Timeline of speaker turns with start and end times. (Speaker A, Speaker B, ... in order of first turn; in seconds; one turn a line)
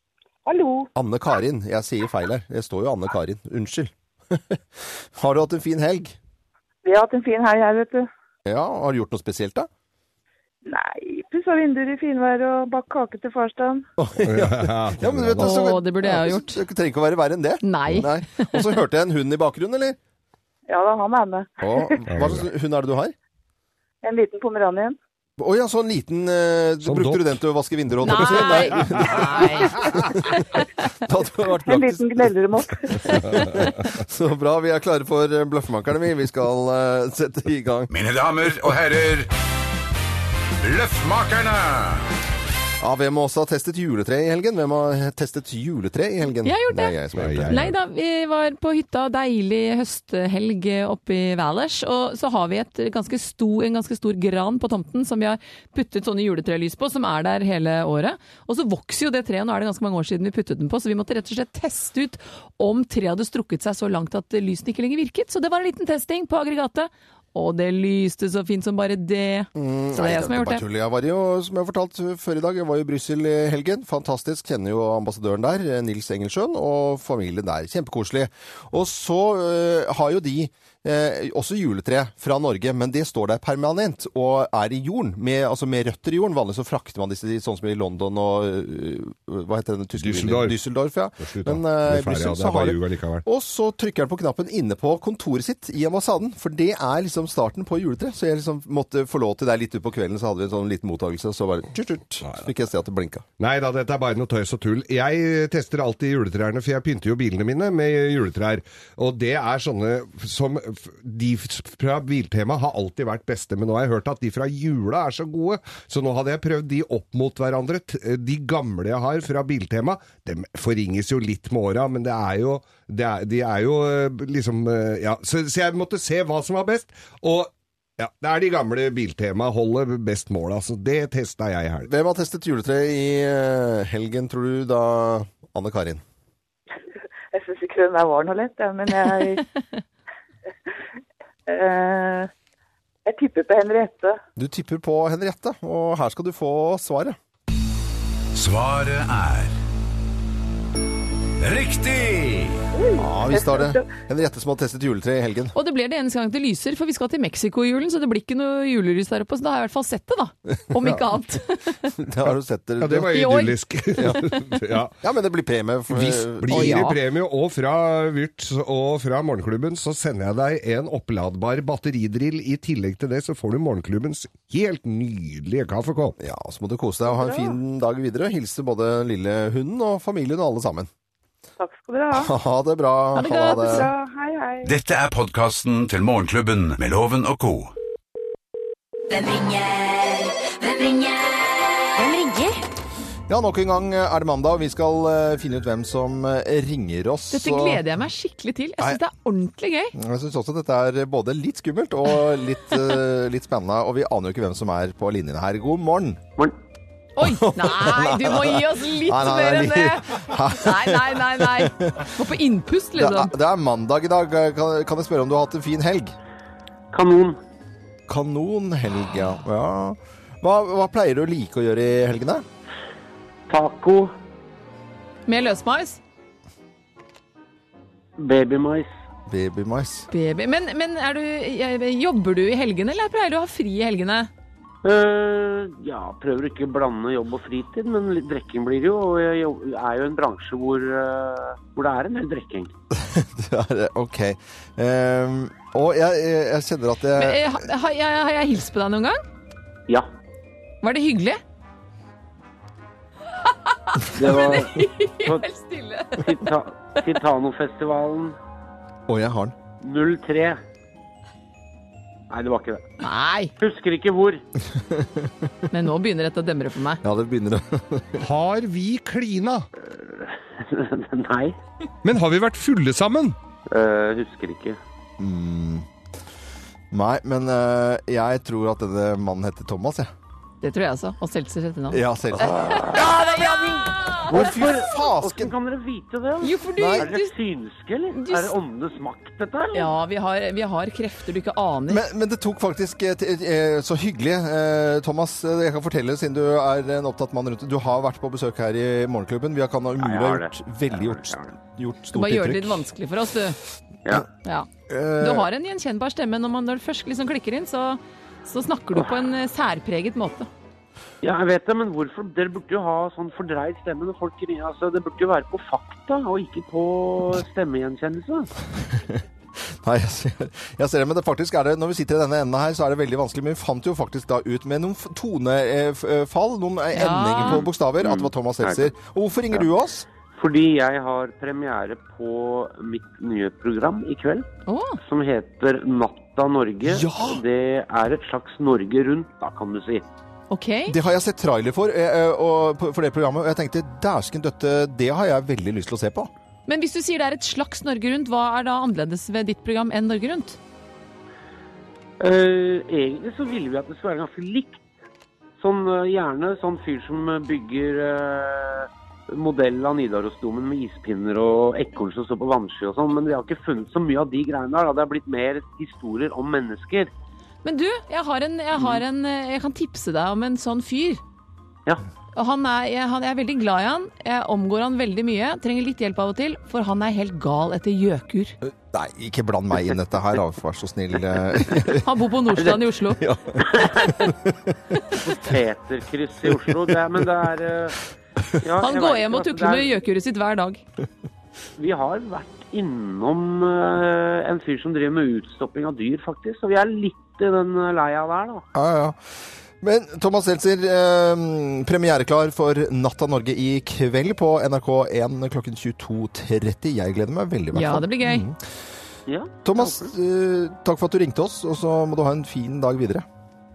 Speaker A: 0.4-0.9
Speaker B: 0.9-4.6
Speaker B: 5.2-6.2
Speaker A: 6.8-8.1
Speaker B: 8.4-9.7
Speaker A: 10.7-13.8
Speaker B: 14.0-20.0
Speaker C: 14.2-15.7
Speaker D: 15.4-16.6
Speaker D: 17.6-18.5
Speaker A: 20.7-22.1
Speaker B: 21.6-23.1
Speaker C: 22.1-22.5
Speaker A: 24.0-25.0
Speaker B: 25.4-30.3
Speaker C: 26.8-27.2
Speaker D: 28.0-30.1
Speaker B: 31.0-32.1
Speaker A: 31.6-33.4
Speaker B: 33.0-37.9
Speaker C: 33.3-33.6
Speaker E: 37.9-39.3
Speaker E: 40.6-42.0
Speaker B: 42.8-47.7
Speaker D: 46.4-46.9
Speaker C: 47.1-47.7
Speaker D: 47.5-70.6
Speaker B: 69.5-103.2
Speaker C: 90.0-90.5
Speaker C: 91.2-93.2
Speaker C: 103.4-131.9
Speaker B: 131.8-136.0
Speaker A: 137.3-139.5
Speaker A: 141.5-142.3
Speaker A: 143.1-144.2
Speaker B: 144.4-147.2
Speaker E: 148.3-149.5
Speaker E: 151.4-152.6
Speaker A: 152.7-153.9
Speaker B: 152.9-155.5
Speaker D: 155.5-161.9
Speaker B: 162.0-163.1
Speaker C: 162.8-164.9
Speaker D: 163.1-163.6
Speaker B: 164.0-166.8
Speaker C: 165.9-176.1
Speaker D: 166.5-167.0
Speaker B: 176.2-180.9
Speaker A: 177.1-177.6
Speaker A: 181.6-182.3
Speaker B: 182.1-183.9
Speaker D: 183.2-183.8
Speaker A: 183.2-184.7
Speaker E: 184.6-187.7
Speaker F: 189.1-192.1
Speaker B: 193.3-197.8
Speaker D: 197.3-199.9
Speaker B: 199.9-206.2
Speaker D: 207.2-213.3
Speaker B: 207.2-212.1
Speaker B: 212.9-216.1
Speaker G: 216.9-217.4
Speaker B: 218.1-222.4
Speaker G: 223.5-224.1
Speaker D: 225.3-226.0
Speaker G: 228.2-228.9
Speaker B: 229.3-230.1
Speaker D: 230.1-234.3
Speaker G: 234.8-242.7
Speaker B: 242.9-247.7
Speaker D: 247.1-249.2
Speaker D: 250.8-251.4
Speaker D: 253.4-256.4
Speaker G: 254.1-255.5
Speaker G: 256.2-258.4
Speaker B: 259.1-259.5
Speaker G: 259.8-260.6
Speaker G: 262.3-262.9
Speaker D: 263.0-263.5
Speaker G: 263.6-264.4
Speaker B: 264.8-265.3
Speaker D: 265.7-267.0
Speaker B: 267.0-268.2
Speaker C: 268.2-269.7
Speaker G: 269.8-271.6
Speaker C: 272.0-273.4
Speaker G: 273.7-274.8
Speaker B: 275.2-275.9
Speaker B: 276.9-280.1
Speaker D: 280.6-284.4
Speaker B: 281.9-283.1
Speaker G: 282.8-283.7
Speaker B: 284.2-285.5
Speaker G: 284.3-289.9
Speaker D: 286.4-287.3
Speaker B: 286.8-287.1
Speaker D: 288.1-288.5
Speaker D: 289.7-292.0
Speaker B: 291.9-302.9
Speaker G: 300.0-301.5
Speaker D: 302.1-303.6
Speaker D: 304.4-304.7
Speaker B: 304.9-305.5
Speaker D: 305.2-310.5
Speaker G: 311.2-318.5
Speaker B: 318.8-330.1
Speaker D: 326.9-327.7
Speaker G: 328.0-328.9
Speaker G: 330.3-334.4
Speaker D: 334.6-335.0
Speaker G: 335.0-340.0
Speaker B: 336.9-337.4
Speaker D: 340.5-340.9
Speaker B: 340.9-346.3
Speaker D: 346.7-350.6
Speaker G: 352.2-354.8
Speaker G: 355.6-367.1
Speaker D: 367.6-371.2
Speaker D: 372.3-378.6
Speaker B: 378.6-382.1
Speaker D: 381.9-383.2
Speaker B: 383.2-384.7
Speaker G: 383.6-384.3
Speaker G: 385.1-388.0
Speaker G: 388.6-389.9
Speaker D: 388.8-390.8
Speaker G: 391.8-398.6
Speaker B: 398.7-399.2
Speaker B: 399.8-408.6
Speaker D: 407.7-408.5
Speaker G: 409.3-410.1
Speaker B: 409.6-413.2